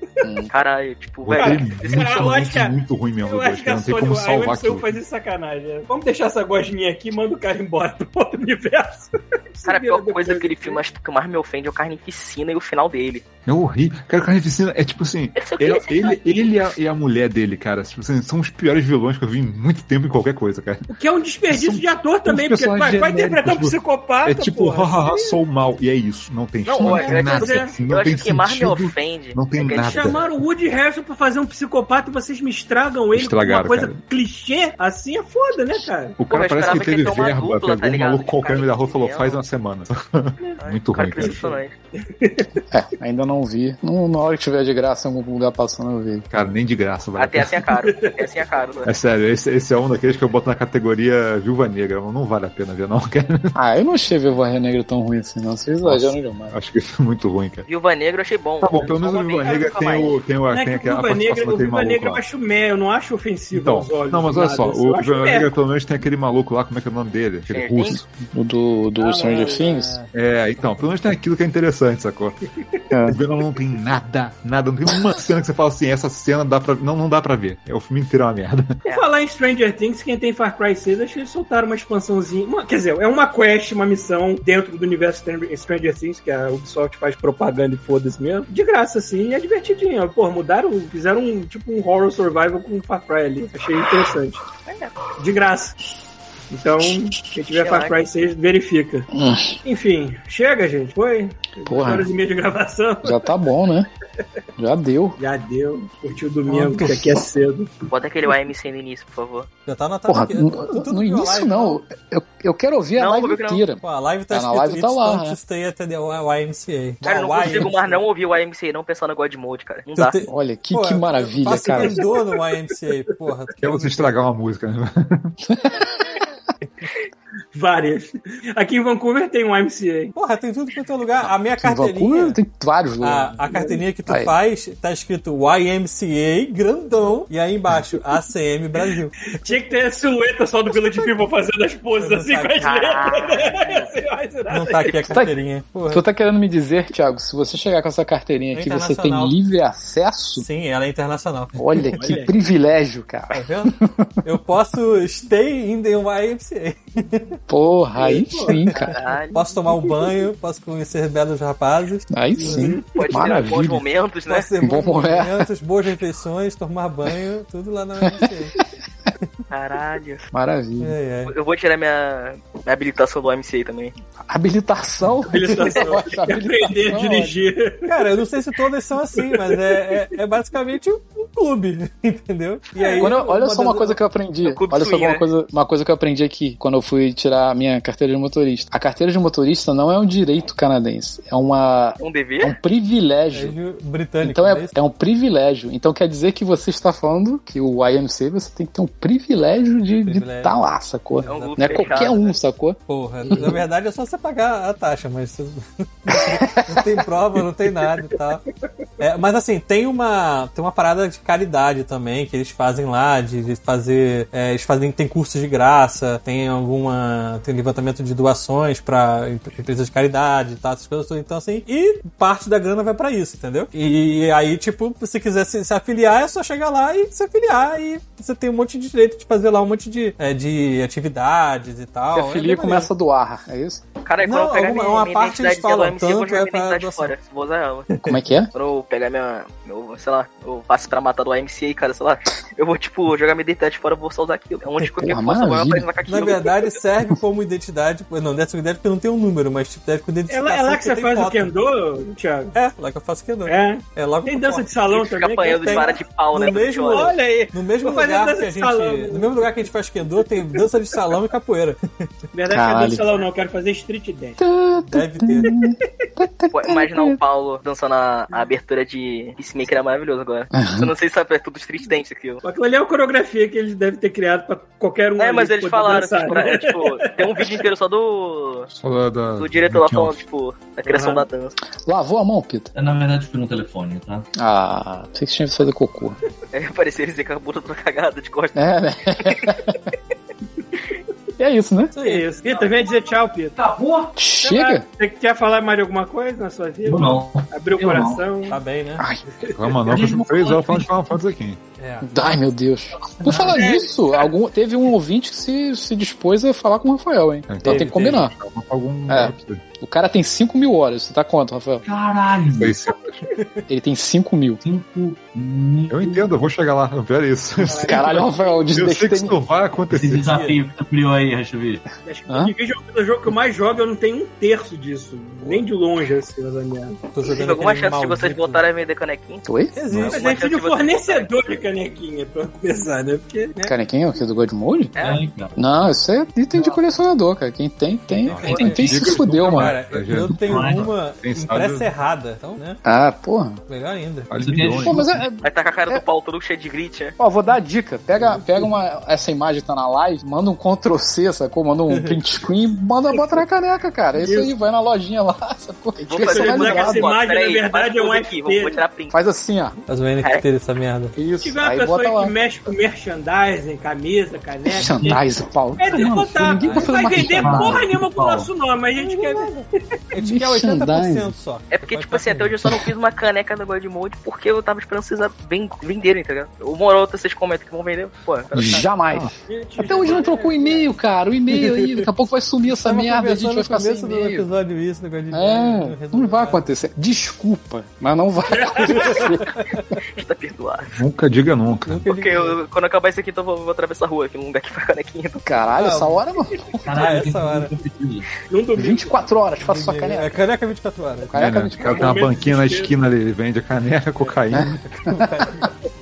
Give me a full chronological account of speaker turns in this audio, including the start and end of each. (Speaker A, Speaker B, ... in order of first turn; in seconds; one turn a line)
Speaker A: 0.2-0.5
Speaker B: 0.5-2.2
Speaker C: 1.2-5.0
Speaker D: 1.4-10.8
Speaker B: 9.7-13.3
Speaker C: 13.5-20.9
Speaker B: 15.3-16.2
Speaker D: 20.9-25.4
Speaker C: 21.5-30.3
Speaker B: 26.7-30.2
Speaker D: 26.8-27.8
Speaker D: 29.7-36.2
Speaker C: 33.1-34.0
Speaker C: 36.2-41.4
Speaker B: 36.3-39.4
Speaker B: 40.6-41.7
Speaker D: 41.1-42.6
Speaker A: 42.7-46.3
Speaker C: 46.3-47.7
Speaker B: 47.2-48.9
Speaker D: 47.9-48.3
Speaker C: 48.9-53.5
Speaker A: 53.5-56.6
Speaker C: 55.8-57.7
Speaker B: 57.7-60.2
Speaker C: 58.6-62.2
Speaker D: 60.5-65.5
Speaker C: 63.5-68.1
Speaker B: 67.5-68.0
Speaker A: 68.3-70.0
Speaker D: 69.0-69.8
Speaker E: 69.5-70.0
Speaker C: 70.1-72.4
Speaker A: 72.9-73.2
Speaker C: 73.1-78.7
Speaker D: 78.9-94.5
Speaker B: 94.7-95.0
Speaker D: 95.2-95.8
Speaker D: 96.5-99.1
Speaker B: 97.5-98.0
Speaker A: 99.1-99.6
Speaker D: 99.7-103.3
Speaker A: 101.7-102.1
Speaker A: 103.0-103.9
Speaker A: 104.6-105.2
Speaker D: 105.2-107.7
Speaker E: 106.5-106.9
Speaker B: 107.9-109.5
Speaker E: 109.7-111.8
Speaker A: 110.1-115.4
Speaker B: 113.0-113.6
Speaker E: 113.8-118.0
Speaker B: 117.0-120.2
Speaker E: 120.0-124.2
Speaker A: 120.3-122.0
Speaker D: 121.7-122.3
Speaker C: 123.6-125.3
Speaker A: 125.5-126.3
Speaker D: 127.5-130.1
Speaker E: 130.2-132.4
Speaker A: 131.4-133.4
Speaker E: 133.0-139.7
Speaker D: 133.5-133.8
Speaker A: 134.1-134.3
Speaker D: 139.4-145.0
Speaker E: 140.7-141.2
Speaker E: 142.0-142.7
Speaker B: 142.6-143.9
Speaker E: 144.5-146.0
Speaker A: 145.9-150.5
Speaker E: 148.5-149.4
Speaker E: 150.4-152.0
Speaker A: 151.6-154.1
Speaker D: 151.9-152.4
Speaker E: 153.3-157.3
Speaker A: 157.5-158.9
Speaker D: 158.0-159.4
Speaker B: 158.9-159.4
Speaker E: 159.3-162.7
Speaker A: 162.1-163.8
Speaker D: 162.4-163.0
Speaker B: 162.9-164.5
Speaker E: 164.3-168.6
Speaker A: 164.6-165.5
Speaker A: 168.0-168.6
Speaker B: 169.5-170.3
Speaker A: 170.3-170.9
Speaker E: 170.8-171.3
Speaker B: 171.3-173.9
Speaker A: 174.3-177.4
Speaker D: 175.3-178.0
Speaker B: 175.6-175.8
Speaker E: 177.9-184.0
Speaker D: 179.1-180.0
Speaker D: 182.8-183.2
Speaker A: 183.0-193.6
Speaker B: 184.4-185.3
Speaker B: 192.0-192.6
Speaker E: 193.3-194.8
Speaker A: 194.2-203.6
Speaker E: 200.1-200.6
Speaker E: 201.2-202.2
Speaker B: 201.3-202.4
Speaker E: 202.9-208.4
Speaker A: 206.1-207.0
Speaker E: 209.0-232.9
Speaker A: 232.1-233.8
Speaker B: 234.0-237.9
Speaker E: 234.2-237.1
Speaker A: 238.0-238.5
Speaker B: 238.5-246.6
Speaker A: 245.0-245.9
Speaker E: 246.1-251.5
Speaker D: 250.3-252.5
Speaker E: 252.5-254.7
Speaker D: 253.5-256.0
Speaker B: 254.9-257.2
Speaker E: 255.5-262.1
Speaker D: 256.9-259.6
Speaker D: 262.3-264.4
Speaker A: 262.5-263.1
Speaker A: 264.4-267.2
Speaker E: 264.9-265.5
Speaker B: 266.5-272.4
Speaker A: 270.5-270.9
Speaker D: 272.4-277.6
Speaker B: 275.2-278.7
Speaker C: 278.7-280.2
Speaker B: 279.4-281.6
Speaker D: 280.9-281.2
Speaker A: 281.9-282.7
Speaker F: 282.8-284.3
Speaker A: 284.4-286.2
Speaker B: 286.5-288.7
Speaker A: 288.6-289.8
Speaker B: 289.2-289.5
Speaker A: 291.4-291.9
Speaker E: 291.9-292.3
Speaker D: 292.0-293.6
Speaker F: 293.6-294.2
Speaker A: 294.2-294.9
Speaker D: 294.4-298.6
Speaker F: 296.9-298.2
Speaker E: 298.5-299.1
Speaker A: 299.0-299.2
Speaker C: 299.5-301.6
Speaker F: 299.8-300.9
Speaker E: 301.8-302.1
Speaker A: 302.0-308.3
Speaker F: 303.2-303.6
Speaker D: 303.5-304.3
Speaker C: 307.5-309.6
Speaker E: 307.6-308.2
Speaker A: 309.1-311.9
Speaker F: 311.9-312.8
Speaker C: 312.5-313.2
Speaker E: 313.4-313.6
Speaker A: 313.7-314.6
Speaker F: 314.6-316.4
Speaker C: 315.9-320.5
Speaker D: 317.6-318.7
Speaker A: 317.9-319.4
Speaker F: 319.9-321.9
Speaker E: 320.2-320.6
Speaker D: 322.0-327.0
Speaker E: 327.1-328.6
Speaker B: 327.2-329.4
Speaker A: 329.4-329.9
Speaker E: 329.8-330.4
Speaker B: 330.1-331.6
Speaker D: 330.1-333.7
Speaker A: 333.6-334.9
Speaker B: 334.9-335.3
Speaker F: 335.0-335.6
Speaker A: 335.6-339.8
Speaker C: 338.2-341.9
Speaker E: 338.3-342.8
Speaker F: 340.5-340.9
Speaker A: 342.9-343.6
Speaker E: 343.7-344.6
Speaker C: 344.3-345.3
Speaker F: 344.4-345.0
Speaker A: 344.8-346.0
Speaker B: 345.4-347.2
Speaker A: 347.2-357.1
Speaker E: 351.9-352.2
Speaker D: 353.1-353.4
Speaker D: 354.1-354.5
Speaker B: 356.0-359.1
Speaker D: 356.1-358.8
Speaker A: 359.1-359.8
Speaker E: 359.9-361.1
Speaker A: 361.2-362.3
Speaker D: 361.4-365.2
Speaker A: 364.7-367.8
Speaker F: 364.8-365.2
Speaker D: 365.8-369.6
Speaker E: 366.6-366.9
Speaker F: 367.2-368.5
Speaker E: 369.0-369.6
Speaker E: 370.1-372.5
Speaker A: 370.2-371.4
Speaker B: 371.7-378.9
Speaker A: 378.5-384.5
Speaker D: 379.5-380.9
Speaker E: 381.5-382.1
Speaker E: 382.9-386.6
Speaker A: 385.3-389.6
Speaker D: 388.5-389.3
Speaker E: 389.0-389.8
Speaker B: 390.1-390.9
Speaker C: 390.9-392.1
Speaker E: 391.9-392.6
Speaker B: 392.1-395.5
Speaker A: 395.4-396.9
Speaker E: 395.8-396.2
Speaker F: 396.8-398.4
Speaker E: 396.9-397.7
Speaker D: 398.5-399.3
Speaker A: 398.8-400.4
Speaker E: 399.6-401.4
Speaker A: 401.3-402.2
Speaker C: 401.3-404.8
Speaker D: 401.8-403.0
Speaker E: 404.2-405.7
Speaker A: 404.5-405.3